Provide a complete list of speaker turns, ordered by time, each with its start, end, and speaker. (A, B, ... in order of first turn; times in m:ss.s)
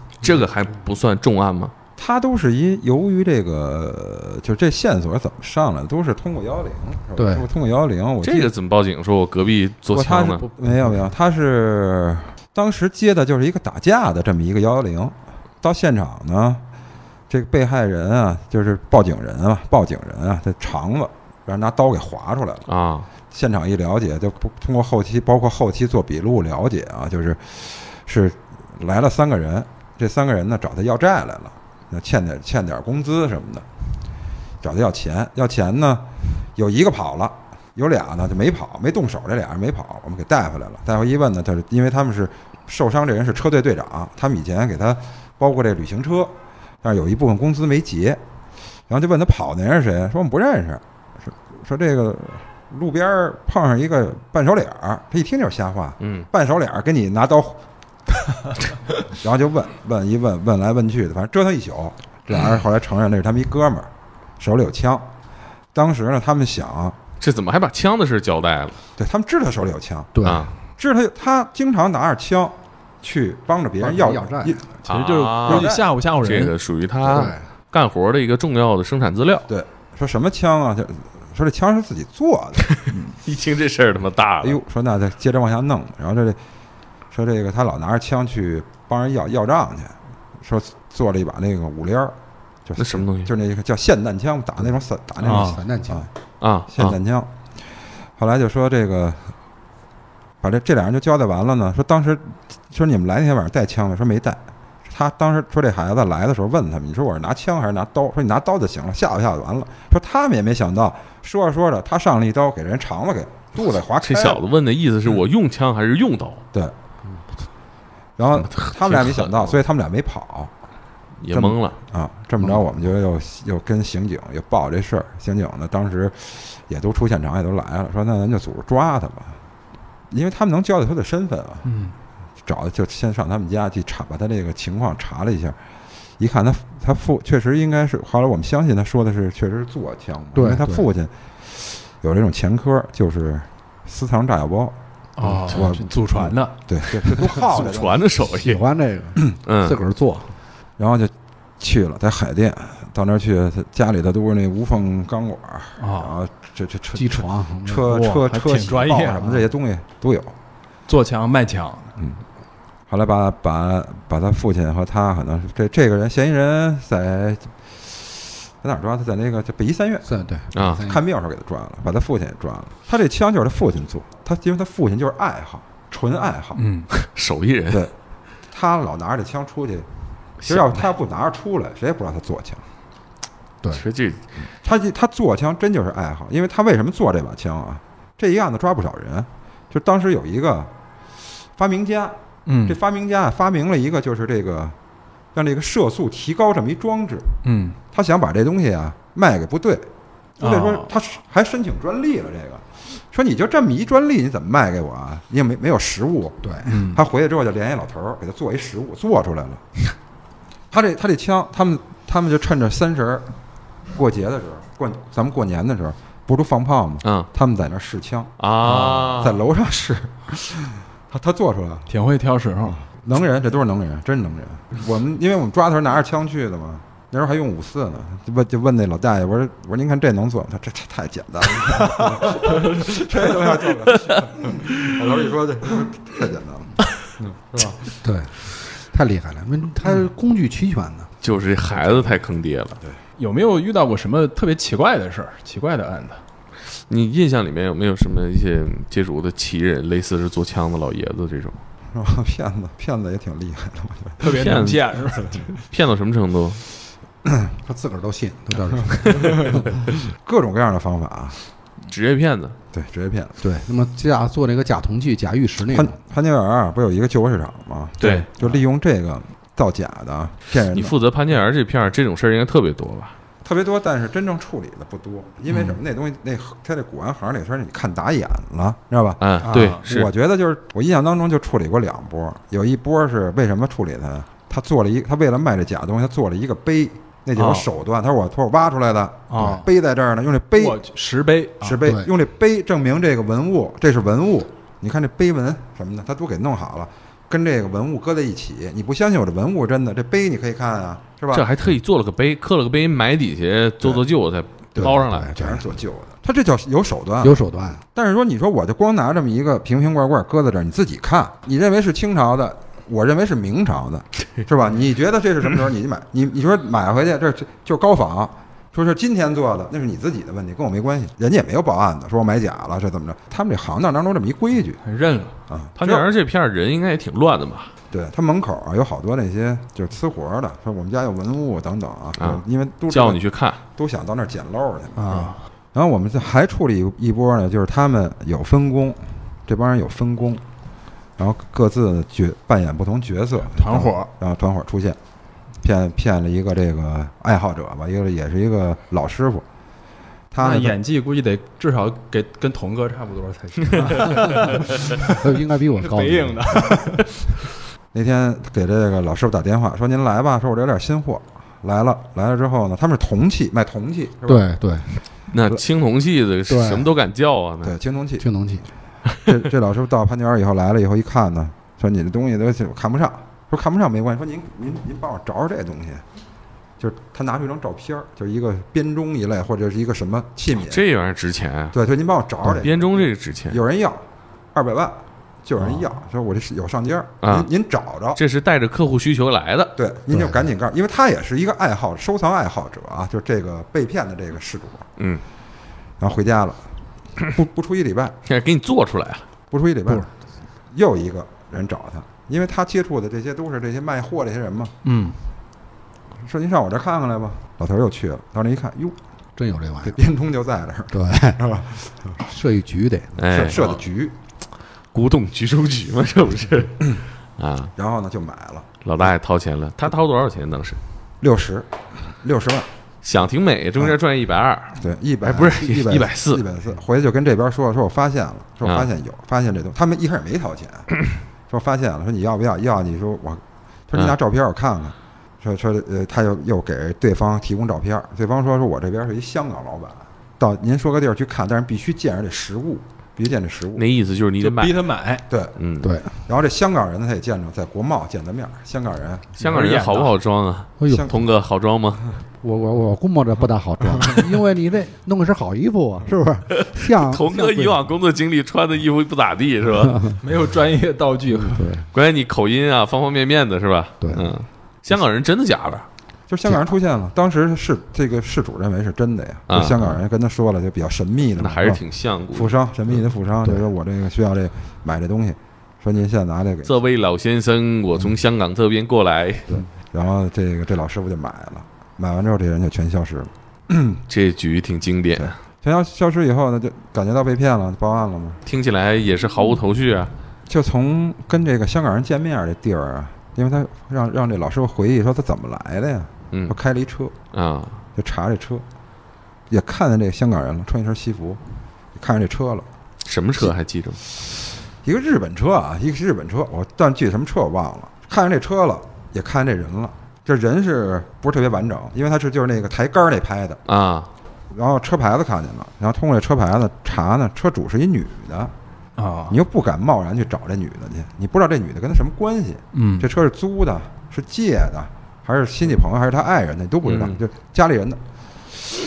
0:00.2-0:01.7 A
0:02.0-0:08.5 B
0:07.2-0:07.5 C
0:08.2-0:10.4 A
0:09.9-0:16.6 B
0:10.6-0:11.0 C
0:17.3-0:22.7 B
0:22.7-0:23.1 A
0:23.3-0:33.6 B
0:34.6-0:48.2 B
0:48.9-0:57.6 B
0:56.0-0:56.3 A
0:59.1-1:05.1 B
1:05.7-1:07.0 B
1:07.2-1:08.8 A
1:09.0-1:10.1 B
1:10.1-1:10.5 C
1:10.2-1:10.5 A
1:10.8-1:14.6 B
1:13.8-1:14.6 C
1:14.8-1:16.5 D
1:14.8-1:19.5 A
1:15.4-1:15.8 B
1:17.0-1:17.4 C
1:19.5-1:22.7 B
1:22.6-1:24.6 A
1:24.4-1:26.4 B
1:27.1-1:36.1 B
1:32.8-1:33.3 A
1:35.2-1:35.6 D
1:35.2-1:36.1 C
1:36.4-1:37.0 A
1:36.7-1:37.3 B
1:38.2-1:39.3 B
1:40.4-1:54.4 B
1:54.0-1:56.4 A
1:58.2-2:00.5 B
1:58.3-1:59.6 A
2:01.2-2:01.8 A
2:01.3-2:09.4 B
2:10.1-2:11.7 B
2:11.6-2:11.9 D
2:12.4-2:15.6 B
2:16.2-2:24.7 B
2:20.3-2:20.8 C
2:25.2-2:27.4 D
2:25.5-2:28.0 B
2:27.2-2:28.6 A
2:28.2-2:30.3 C
2:29.4-2:29.8 A
2:30.8-2:40.3 B
2:35.8-2:36.2 D
2:36.9-2:37.9 C
2:37.8-2:39.4 D
2:40.9-2:42.0 D
2:42.9-2:50.1 B
2:50.0-2:51.0 C
2:50.5-2:50.8 A
2:50.8-2:56.6 B
2:56.6-2:56.9 D
2:56.9-2:57.9 A
2:58.5-2:59.9 B
3:00.4-3:00.8 A
3:00.4-3:02.6 B
3:03.7-3:04.2 A
3:04.6-3:10.7 B
3:11.6-3:14.7 B
3:12.4-3:12.8 D
3:15.3-3:17.3 B
3:17.4-3:17.8 D
3:17.9-3:19.9 B
3:20.4-3:20.9 D
3:20.4-3:29.6 B
3:26.6-3:27.0 D
3:30.7-3:33.3 B
3:33.9-3:38.3 B
3:38.4-3:39.4 A
3:38.6-3:39.1 D
3:39.1-3:41.9 B
3:41.9-3:42.8 D
3:42.8-3:57.8 B
3:53.9-3:54.9 A
3:58.0-4:01.1 C
4:01.2-4:02.8 A
4:03.2-4:06.2 D
4:06.9-4:11.6 A
4:11.9-4:14.2 B
4:14.2-4:15.4 D
4:14.2-4:16.6 A
4:17.6-4:19.9 C
4:18.8-4:21.4 B
4:21.9-4:22.6 A
4:22.7-4:23.4 B
4:23.4-4:26.0 C
4:25.7-4:31.0 B
4:28.0-4:28.3 D
4:30.7-4:33.1 A
4:33.4-4:50.8 B
4:39.2-4:40.1 A
4:39.4-4:39.8 D
4:47.4-4:47.7 D
4:49.3-4:49.7 D
4:50.5-4:51.8 D
4:51.6-5:01.5 B
4:51.8-4:52.1 C
5:01.3-5:05.4 A
5:04.8-5:05.7 C
5:04.8-5:07.4 B
5:07.2-5:07.8 C
5:07.9-5:24.8 B
5:24.8-5:25.3 D
5:25.5-5:26.1 B
5:25.8-5:27.7 A
5:27.9-5:33.2 B
5:32.2-5:33.6 A
5:33.8-5:40.4 B
5:35.0-5:35.4 D
5:41.2-5:45.0 B
5:43.5-5:44.1 D
5:45.6-5:49.4 B
5:50.3-5:50.8 B
5:50.4-5:57.2 D
5:54.0-5:54.3 C
5:55.0-5:56.8 C
5:57.9-6:04.5 B
6:04.2-6:04.9 C
6:05.3-6:07.7 A
6:06.5-6:06.9 C
6:07.6-6:08.2 B
6:08.2-6:08.6 C
6:09.2-6:16.0 B
6:16.8-6:20.8 B
6:20.5-6:21.7 A
6:21.7-6:28.2 B
6:22.4-6:23.6 A
6:27.2-6:27.5 A
6:28.2-6:29.7 A
6:29.8-6:34.8 B
6:30.1-6:30.4 C
6:36.0-6:36.6 B
6:37.2-6:38.2 B
6:38.2-6:39.2 A
6:39.5-6:40.1 B
6:40.7-6:44.7 B
6:44.8-6:45.2 D
6:46.2-6:49.0 B
6:49.4-6:50.0 C
6:49.8-6:52.2 B
6:50.9-6:51.4 C
6:52.2-6:53.1 C
6:53.2-6:53.8 A
6:53.3-6:54.2 B
6:54.9-6:57.7 A
6:57.8-6:58.7 B
6:58.8-7:00.8 A
7:01.2-7:02.7 B
7:03.0-7:06.4 A
7:04.8-7:10.9 B
7:11.5-7:23.8 B
7:23.8-7:24.8 A
7:24.4-7:25.2 D
7:25.3-7:25.6 B
7:25.6-7:25.9 A
7:25.8-7:26.1 C
7:26.2-7:29.3 B
7:29.4-7:32.1 A
7:29.4-7:30.1 D
7:30.8-7:31.1 C
7:30.9-7:31.2 B
7:32.4-7:37.8 C
7:36.6-7:40.1 A
7:39.8-7:40.2 C
7:40.2-7:41.7 D
7:41.3-7:41.9 C
7:41.9-7:45.8 A
7:44.0-7:44.3 C
7:46.3-7:56.8 B
7:49.5-7:50.0 A
7:51.4-7:52.6 A
7:56.6-7:59.6 A
7:59.5-8:04.0 B
8:04.1-8:05.3 A
8:05.2-8:08.4 B
8:08.4-8:10.1 A
8:10.5-8:17.1 B
8:17.3-8:17.8 A
8:18.0-8:18.6 B
8:19.5-8:21.4 B
8:21.9-8:22.7 B
8:23.0-8:24.0 A
8:24.8-8:33.6 B
8:33.7-8:34.1 A
8:34.5-8:38.5 B
8:39.0-8:39.4 D
8:39.3-8:48.0 B
8:42.7-8:43.1 D
8:46.8-8:47.2 A